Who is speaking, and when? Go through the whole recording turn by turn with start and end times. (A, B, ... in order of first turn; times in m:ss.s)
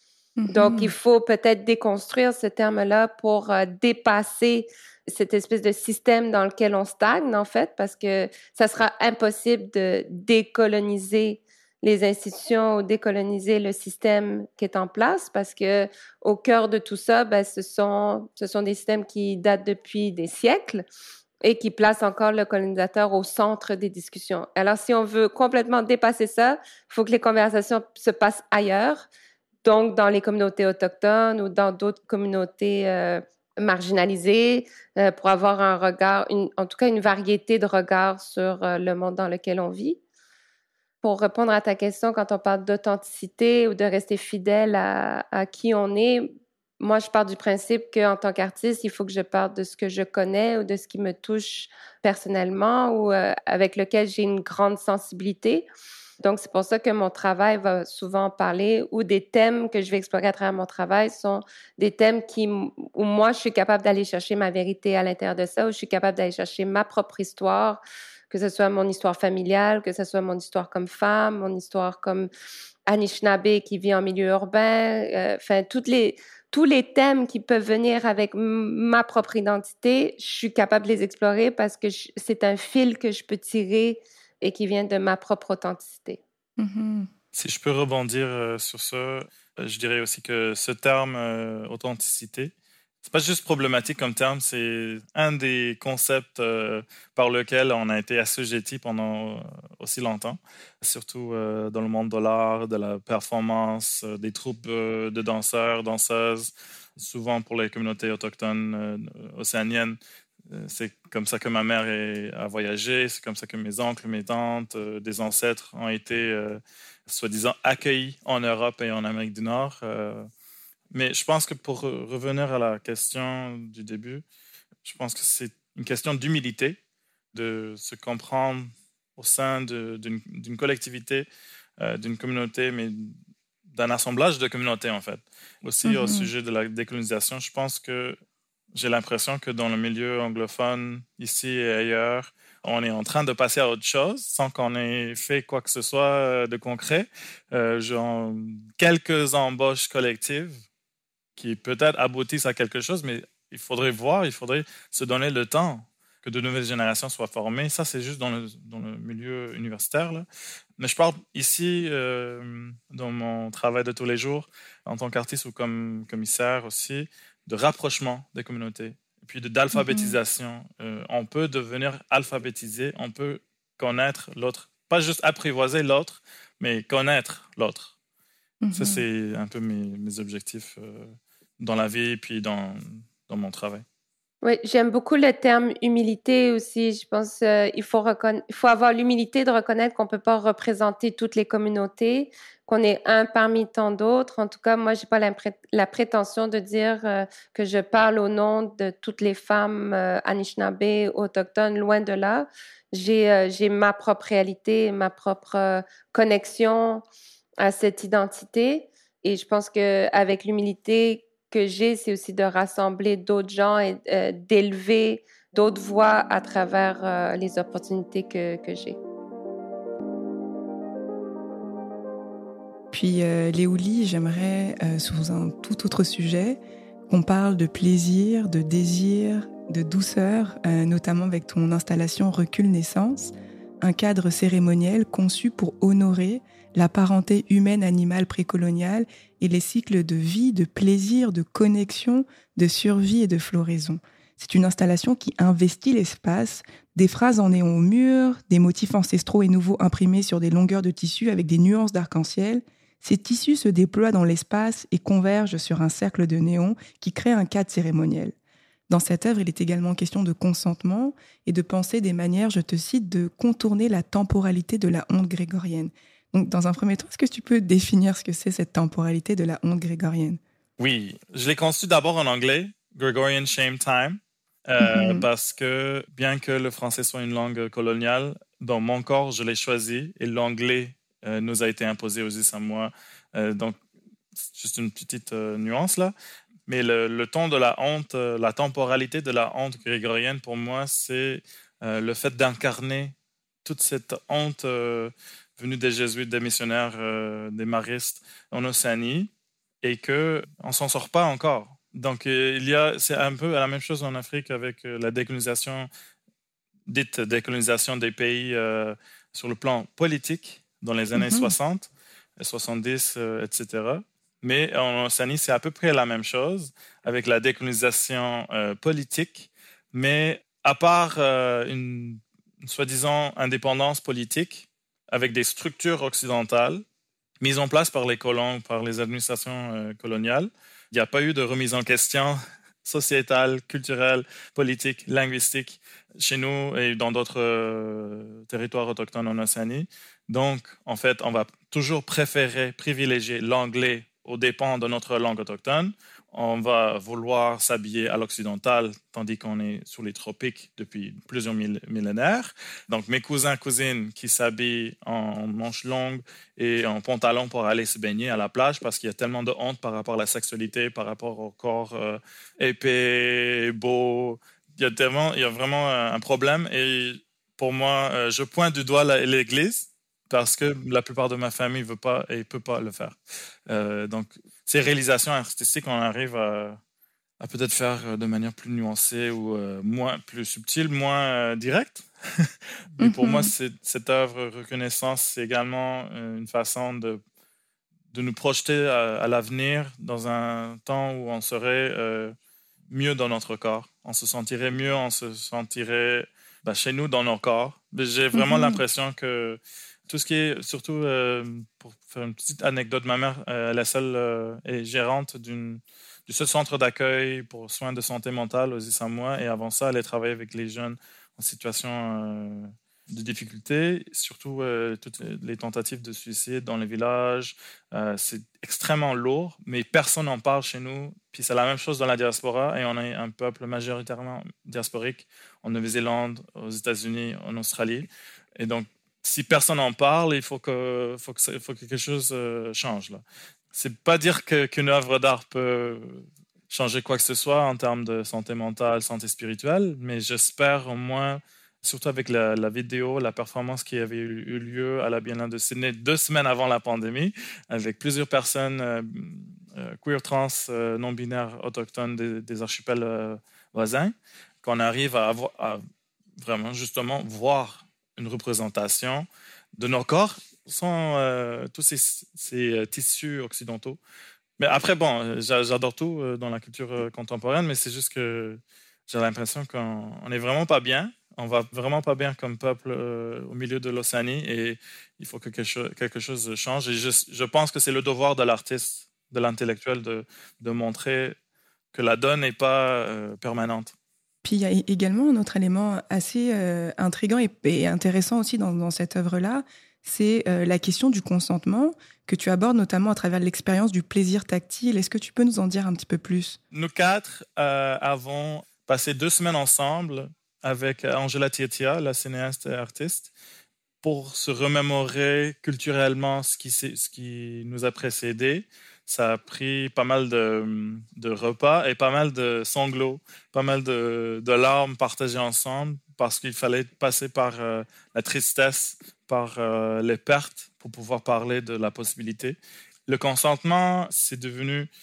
0:00.4-0:00.9 A
0:00.5-0:20.8 B
0:21.4-0:29.1 B
0:29.6-0:40.0 B
0:41.0-0:55.7 B
0:56.2-1:12.3 B
1:12.9-1:26.2 B
1:26.6-1:27.1 A
1:27.3-1:32.5 C
1:33.0-1:50.0 C
1:50.5-2:00.3 C
2:00.9-2:04.2 C
2:04.8-2:06.8 C
2:07.3-2:11.3 C
2:11.8-2:13.2 C
2:13.7-2:18.2 C
2:15.8-2:16.3 A
2:18.7-2:30.6 C
2:31.4-2:40.3 C
2:40.8-2:57.9 C
2:49.7-2:50.2 A
2:58.6-2:59.0 A
2:58.7-3:03.8 C
3:04.4-3:27.0 B
3:27.6-3:39.0 B
3:42.9-4:18.4 A
4:18.9-4:30.4 A
4:30.8-4:43.8 C
4:34.8-4:35.3 A
4:44.5-4:46.1 C
4:46.7-4:59.3 C
4:59.8-5:05.9 C
5:06.9-5:26.8 C
5:11.2-5:11.6 A
5:27.4-6:13.2 C
6:13.7-6:16.8 C
6:17.4-6:27.2 C
6:23.0-6:23.5 A
6:28.1-6:32.4 C
6:32.9-7:13.2 C
6:38.3-6:38.8 A
7:13.7-7:35.8 C
7:36.4-7:44.0 C
7:44.6-8:01.4 C
8:01.9-8:04.0 C
8:04.4-8:16.6 A
8:16.7-8:23.3 C
8:24.0-8:44.9 C